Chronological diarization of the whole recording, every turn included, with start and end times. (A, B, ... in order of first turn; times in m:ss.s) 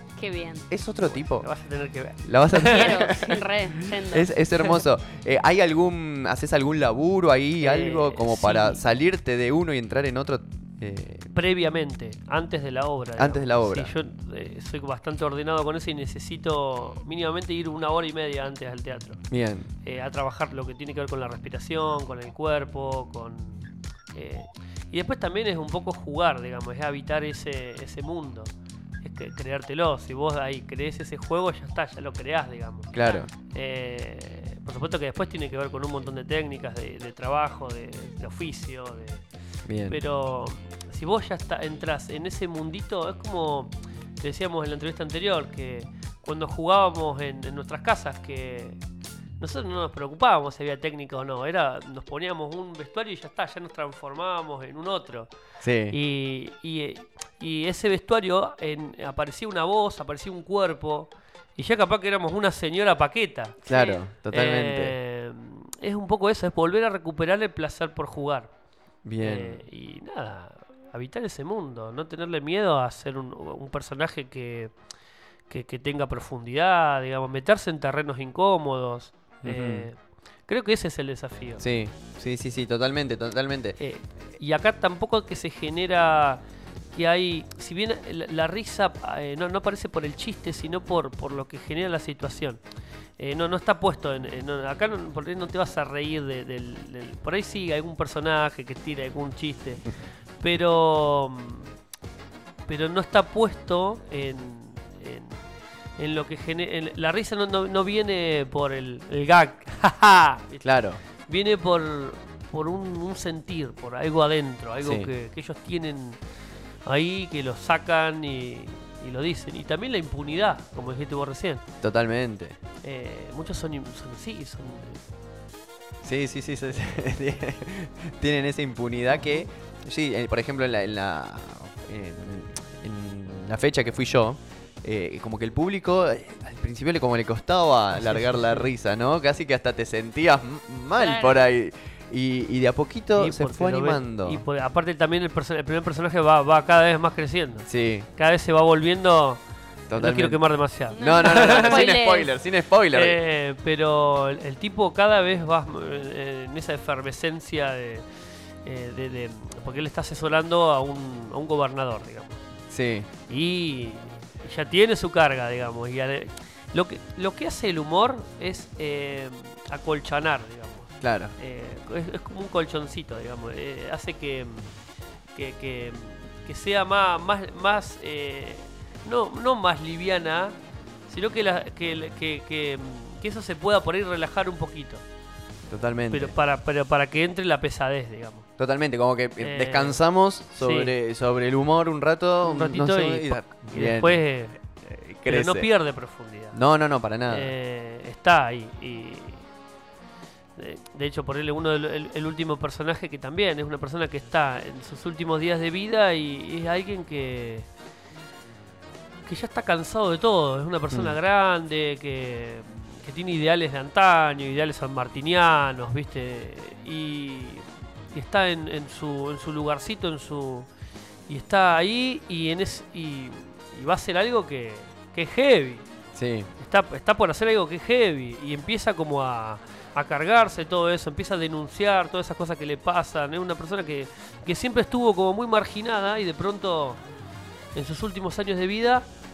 0:00.2-0:00.7 A
0:00.7-0:01.5 B
0:01.0-0:03.2 C
0:02.2-0:11.3 B
0:02.6-0:04.3 A
0:07.6-0:08.8 C
0:11.3-0:19.2 C
0:13.2-0:13.9 B
0:19.3-0:19.7 B
0:19.8-0:28.5 C
0:29.0-0:33.0 C
0:32.9-0:33.3 B
0:33.5-0:39.2 C
0:39.7-0:40.0 B
0:39.9-0:48.8 C
0:49.4-0:55.3 C
0:55.6-0:56.0 B
0:55.9-1:03.6 C
1:03.6-1:05.0 B
1:03.7-1:04.0 A
1:04.3-1:08.5 C
1:09.0-1:09.6 B
1:09.2-1:14.7 C
1:15.5-1:21.6 C
1:19.4-1:19.9 B
1:21.6-1:23.8 B
1:23.8-1:26.4 C
1:27.0-1:32.6 C
1:33.2-1:39.8 C
1:40.4-1:41.7 C
1:42.7-1:45.4 C
1:46.0-1:56.2 C
1:50.6-1:51.0 B
1:54.8-1:55.1 B
1:56.8-2:01.6 C
2:01.8-2:02.6 B
2:02.8-2:05.1 C
2:06.0-2:24.4 B
2:09.1-2:09.5 C
2:17.9-2:18.7 C
2:21.0-2:21.4 A
2:23.2-2:29.4 C
2:27.7-2:28.1 B
2:29.9-2:30.4 B
2:30.0-2:31.9 C
2:30.9-2:32.3 A
2:31.0-2:33.2 B
2:32.9-2:38.0 C
2:38.6-2:42.4 C
2:42.7-2:43.1 B
2:43.3-2:54.7 C
2:51.0-2:51.3 B
2:55.4-3:00.6 C
3:01.1-3:05.0 C
3:05.7-3:06.4 B
3:06.1-3:08.5 C
3:08.6-3:14.2 B
3:09.4-3:10.0 C
3:10.6-3:11.0 C
3:12.4-3:14.6 C
3:14.9-3:15.7 B
3:15.2-3:16.6 C
3:16.5-3:17.5 B
3:17.3-3:19.4 C
3:20.6-3:27.7 C
3:29.3-3:40.7 C
3:30.9-3:31.2 B
3:41.3-3:45.9 C
3:46.2-3:46.5 B
3:46.6-3:57.0 C
3:57.8-3:59.1 C